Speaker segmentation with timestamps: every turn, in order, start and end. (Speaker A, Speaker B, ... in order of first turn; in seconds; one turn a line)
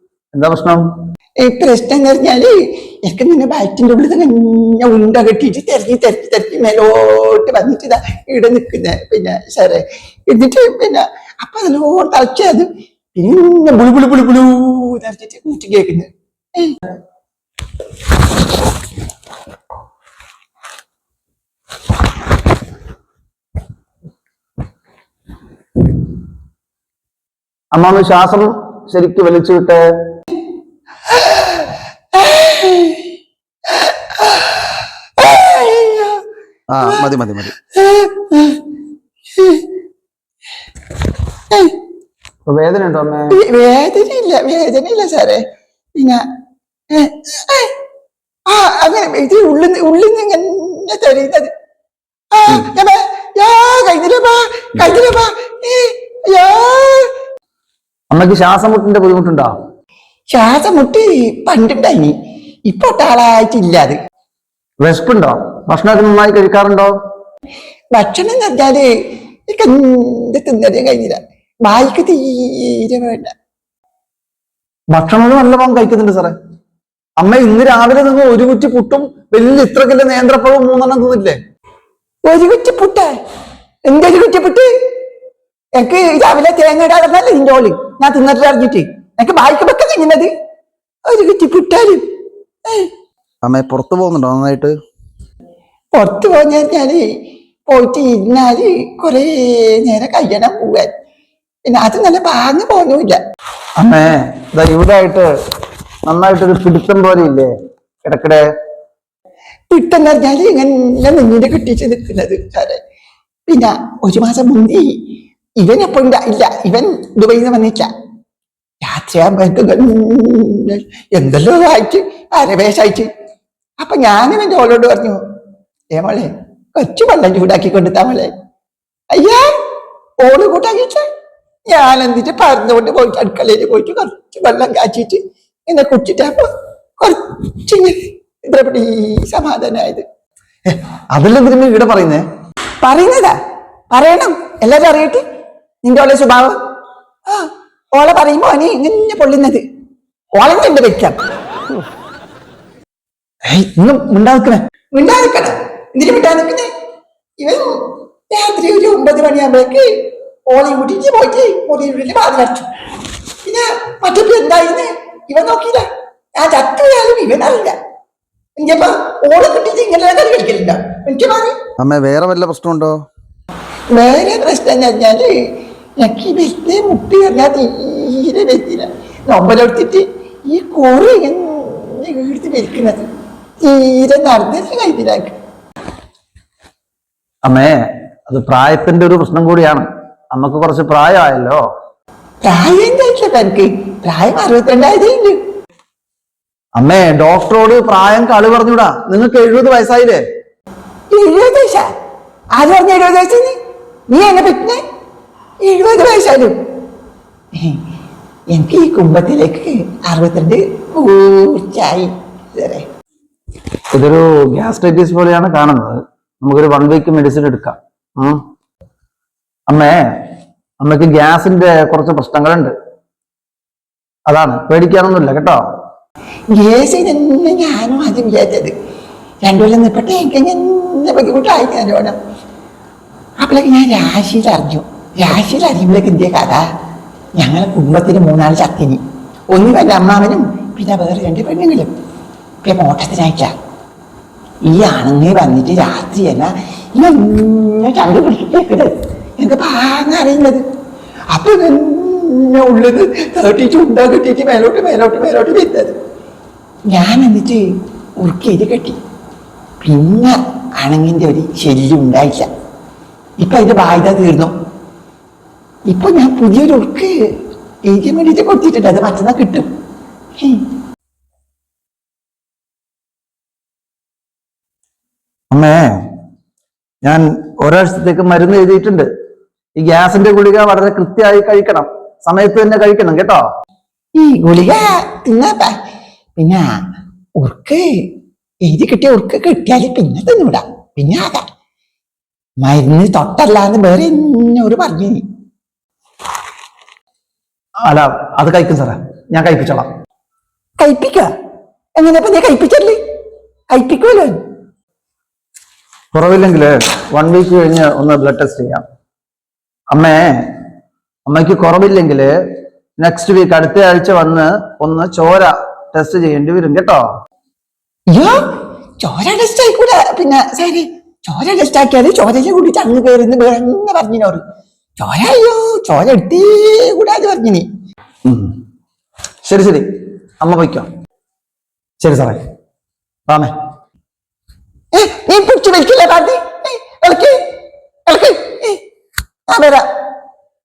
Speaker A: 0.3-0.8
Speaker B: 1.4-16.9
Speaker A: 27.7-29.8
Speaker B: 31.1-33.1
Speaker B: 33.7-36.2
Speaker A: 36.7-37.5
Speaker B: 36.8-37.1
Speaker B: 37.7-38.6
Speaker B: 39.4-39.6
Speaker A: 42.5-43.4
Speaker B: 43.3-45.4
Speaker B: 46.0-46.2
Speaker B: 46.9-47.7
Speaker B: 48.5-51.5
Speaker B: 52.3-57.1
Speaker A: 58.1-59.5
Speaker B: 60.3-62.1
Speaker B: 62.7-64.0
Speaker A: 64.8-66.9
Speaker B: 67.9-68.9
Speaker B: 69.5-73.3
Speaker A: 74.9-76.3
Speaker A: 77.2-81.4
Speaker B: 82.2-83.2
Speaker B: 83.9-84.7
Speaker B: 85.8-90.3
Speaker B: 91.0-92.0
Speaker A: 93.4-94.7
Speaker B: 96.0-97.0
Speaker B: 97.7-100.9
Speaker B: 101.7-103.2
Speaker A: 103.8-105.3
Speaker A: 106.1-107.5
Speaker A: 108.0-108.4
Speaker B: 109.7-112.8
Speaker B: 113.5-115.0
Speaker B: 115.6-117.9
Speaker B: 118.8-123.1
Speaker B: 123.8-125.2
Speaker B: 125.9-128.3
Speaker B: 129.1-129.5
Speaker B: 130.2-131.0
Speaker B: 131.7-136.5
Speaker B: 137.0-140.0
Speaker A: 140.7-142.2
Speaker B: 142.8-143.3
Speaker B: 143.9-145.2
Speaker B: 145.8-146.6
Speaker B: 147.3-149.6
Speaker B: 150.3-151.2
Speaker B: 153.4-156.7
Speaker B: 157.4-159.9
Speaker B: 160.5-162.7
Speaker B: 163.4-167.8
Speaker B: 168.6-171.6
Speaker A: 171.8-173.0
Speaker B: 173.9-183.0
Speaker B: 183.6-185.3
Speaker A: 187.4-191.6
Speaker B: 192.4-195.4
Speaker A: 196.8-200.2
Speaker B: 201.1-201.9
Speaker B: 202.6-203.6
Speaker B: 204.1-204.8
Speaker B: 205.6-206.5
Speaker B: 207.5-207.8
Speaker B: 208.5-212.8
Speaker A: 213.9-218.4
Speaker A: 219.7-220.2
Speaker A: 220.8-222.7
Speaker A: 224.3-225.6
Speaker B: 226.5-228.7
Speaker B: 229.4-232.2
Speaker B: 233.4-236.7
Speaker B: 237.4-241.9
Speaker B: 242.6-243.5
Speaker B: 244.6-250.6
Speaker B: 251.3-255.9
Speaker B: 256.9-259.0
Speaker B: 259.8-262.5
Speaker B: 263.4-264.5
Speaker B: 265.9-267.1
Speaker B: 267.8-269.7
Speaker B: 270.4-270.6
Speaker A: 275.5-276.0
Speaker A: 277.0-279.1
Speaker A: 279.8-283.4
Speaker B: 284.1-285.8
Speaker B: 286.4-286.6
Speaker B: 287.4-287.9
Speaker B: 288.6-291.5
Speaker B: 292.6-295.2
Speaker A: 297.8-299.9
Speaker B: 300.8-301.3
Speaker B: 302.0-303.0
Speaker B: 303.7-304.4
Speaker A: 306.1-308.8
Speaker A: 309.9-310.6
Speaker A: 311.2-312.3
Speaker A: 313.0-317.0
Speaker B: 318.1-318.4
Speaker B: 319.0-324.4
Speaker B: 325.0-327.6
Speaker A: 328.2-328.5
Speaker A: 329.4-329.9
Speaker A: 330.4-330.9
Speaker A: 332.0-332.4
Speaker B: 334.9-337.4
Speaker B: 338.1-338.8
Speaker B: 339.5-339.8